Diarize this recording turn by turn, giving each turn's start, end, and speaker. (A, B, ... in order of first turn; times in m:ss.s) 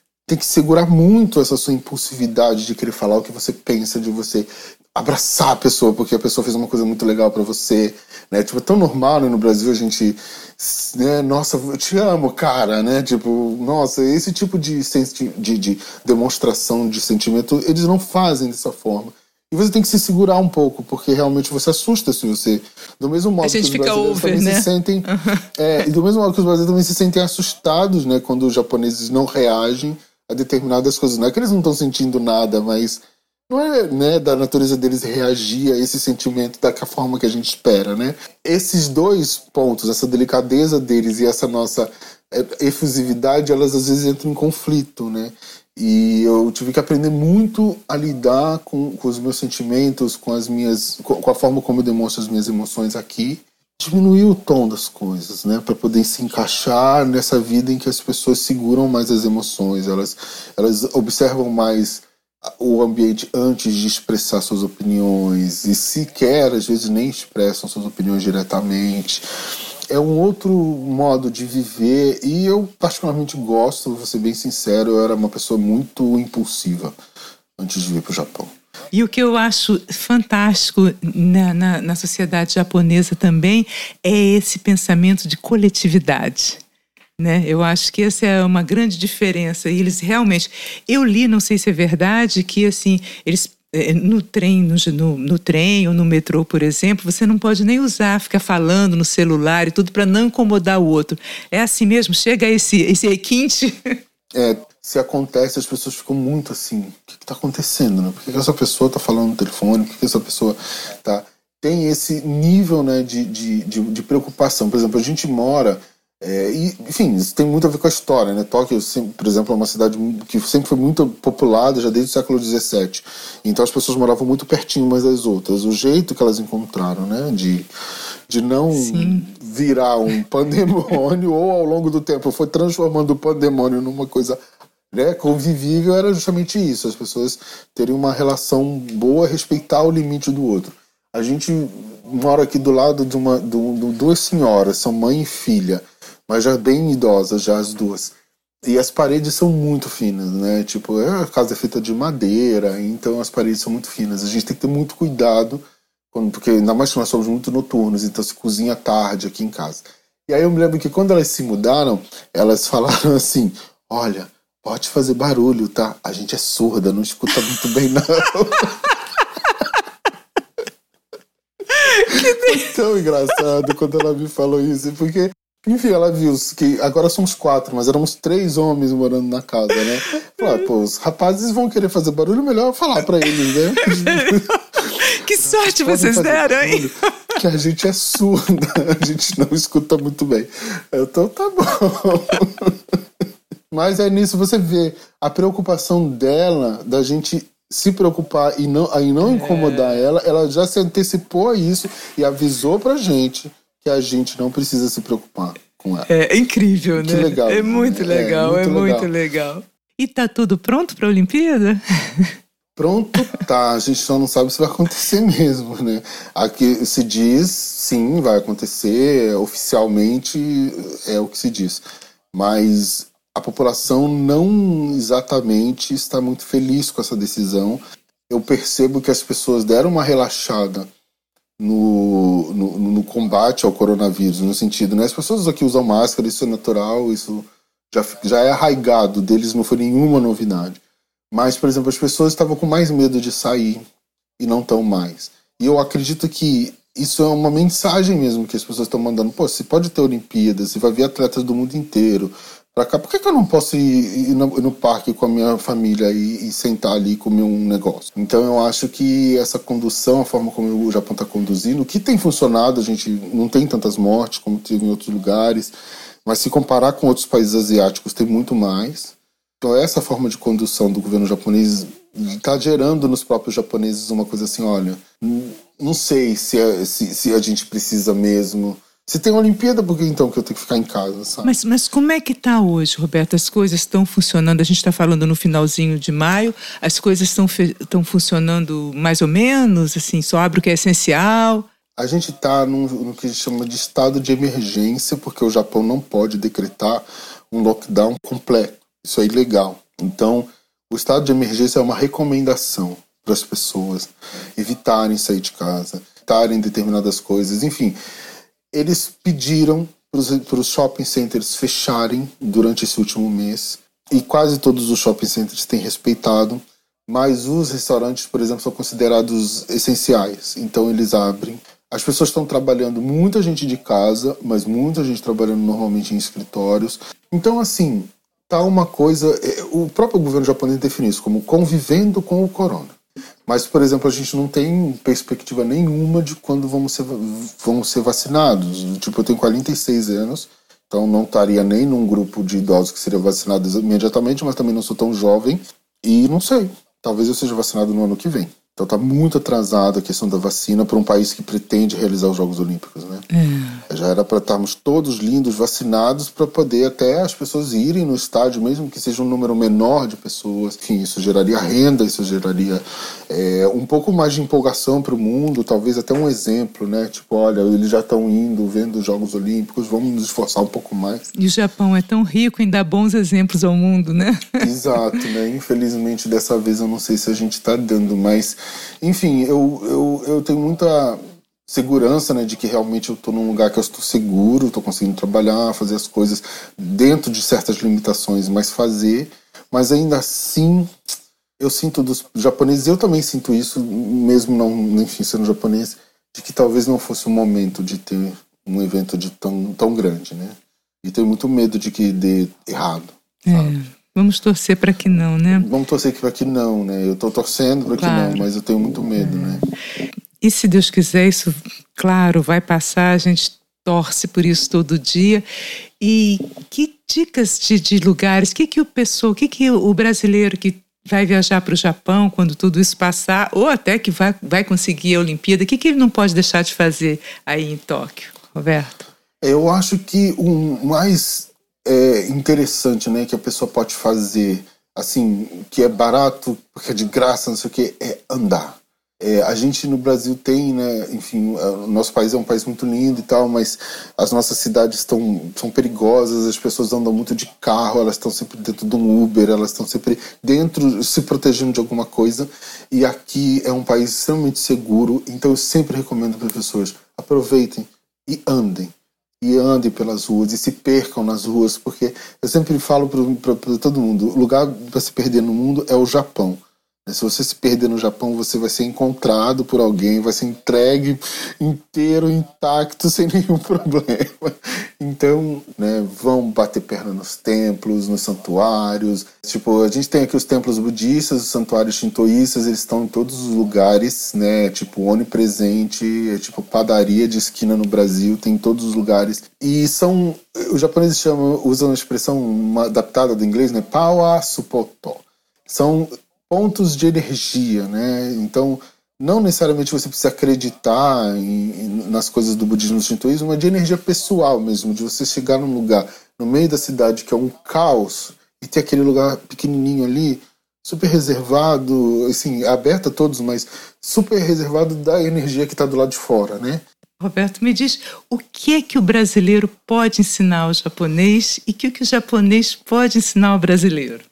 0:00.3-1:09.2 A
0:23.4-0:25.5 B
1:09.9-1:17.0 A
1:17.6-1:18.5 A
1:18.9-1:26.6 B
1:27.2-1:44.0 B
1:44.4-2:07.7 A
2:08.3-2:14.4 A
2:08.7-2:09.3 B
2:14.9-2:49.0 A
2:51.7-2:52.6 B
2:52.0-3:13.0 A
3:00.4-3:00.6 B
3:03.5-3:06.9 B
3:13.7-3:26.1 A
3:19.2-3:20.1 B
3:26.1-3:32.4 B
3:27.0-3:29.1 A
3:32.8-3:50.9 A
3:51.6-4:03.8 A
4:04.4-4:41.6 A
4:41.4-4:51.7 B
4:52.0-5:08.0 A
5:08.7-5:33.0 A
5:33.5-5:53.3 A
5:53.3-5:53.8 B
5:53.9-6:11.3 A
6:11.4-6:14.7 B
6:14.6-6:30.9 A
6:31.6-6:43.8 A
6:43.4-6:45.7 B
6:45.5-6:49.6 A
6:48.0-6:48.5 B
6:49.2-6:49.6 B
6:50.4-6:55.4 B
6:56.0-7:09.0 B
7:09.4-8:36.8 A
8:37.2-8:44.2 B